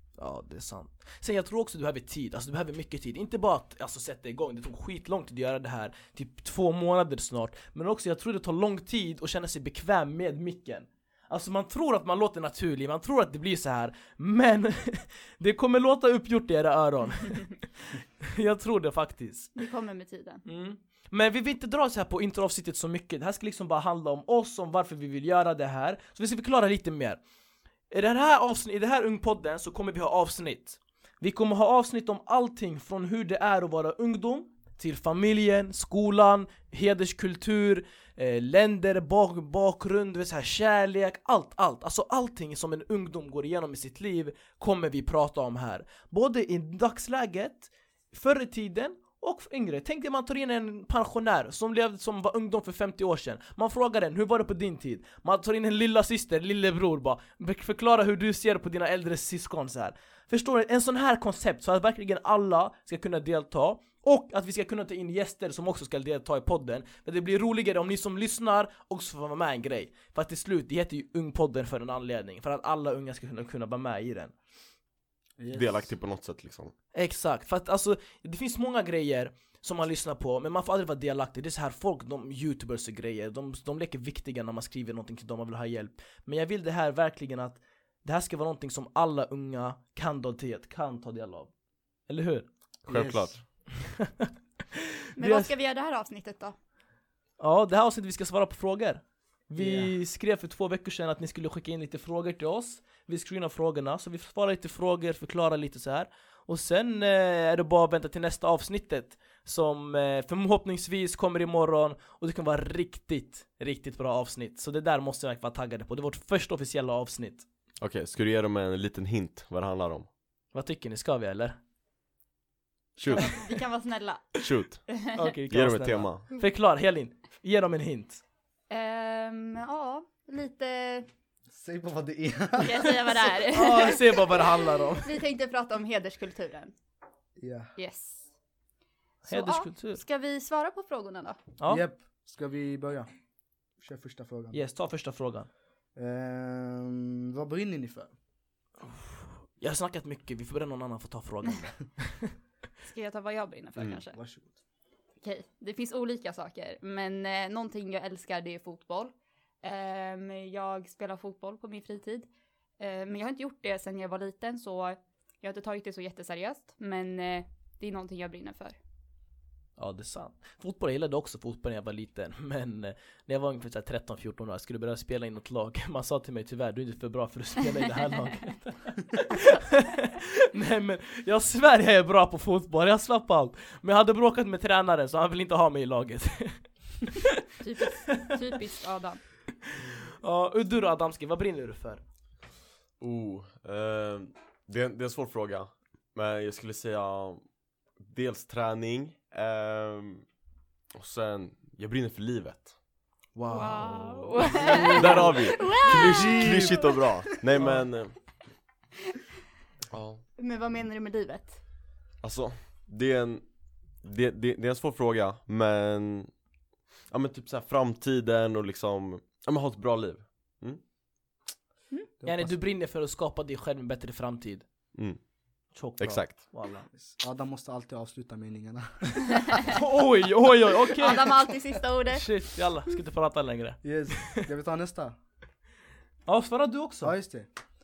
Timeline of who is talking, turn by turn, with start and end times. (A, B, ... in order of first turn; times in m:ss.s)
0:00.2-0:19.5 A
0:19.6-0:20.4 B
0:20.5-0:27.2 A
0:27.9-1:14.3 A
1:15.4-1:15.9 C
1:15.5-1:16.7 D
1:16.9-1:31.5 A
1:32.1-1:32.5 A
1:32.9-1:33.4 D
1:32.9-1:33.4 C
1:35.2-1:36.6 B
1:35.2-1:35.5 A
1:37.4-1:57.4 A
1:39.6-1:39.9 C
1:57.8-2:00.1 D
2:00.5-2:01.6 A
2:03.0-2:03.2 D
2:03.1-2:05.3 B
2:03.2-2:03.4 A
2:04.4-2:04.9 D
2:05.2-2:08.2 A
2:05.5-2:06.2 D
2:08.7-2:11.1 B
2:11.5-2:13.1 C
2:12.6-2:14.2 B
2:13.5-2:15.2 A
2:15.0-2:16.8 B
2:17.4-2:17.7 C
2:17.8-2:18.2 B
2:19.2-2:21.4 B
2:19.2-2:20.0 A
2:21.7-2:23.1 C
2:23.8-2:24.6 C
2:24.5-2:25.5 A
2:26.0-2:28.1 C
2:29.6-2:32.3 A
2:32.8-2:34.2 B
2:33.8-2:34.6 C
2:35.2-2:48.8 B
2:49.8-3:07.3 A
3:07.6-3:09.2 B
3:08.1-3:08.3 A
3:09.7-3:12.0 A
3:13.0-3:17.4 D
3:18.0-3:20.2 D
3:21.0-3:22.7 D
3:23.4-3:24.0 A
3:23.5-3:27.0 B
3:24.5-3:25.4 C
3:25.0-3:28.1 D
3:25.9-3:27.0 C
3:29.9-3:30.2 D
3:30.4-3:31.6 B
3:32.2-3:33.4 D
3:34.0-3:36.3 D
3:37.1-3:40.8 D
3:42.2-3:42.6 C
3:42.2-3:44.6 A
3:45.7-3:46.9 A
3:46.0-3:46.5 D
3:46.9-3:49.6 C
3:49.7-3:51.4 A
3:51.0-3:52.2 B
3:52.1-3:54.4 A
3:53.8-3:55.2 C
3:56.2-3:57.2 A
3:57.0-3:57.5 C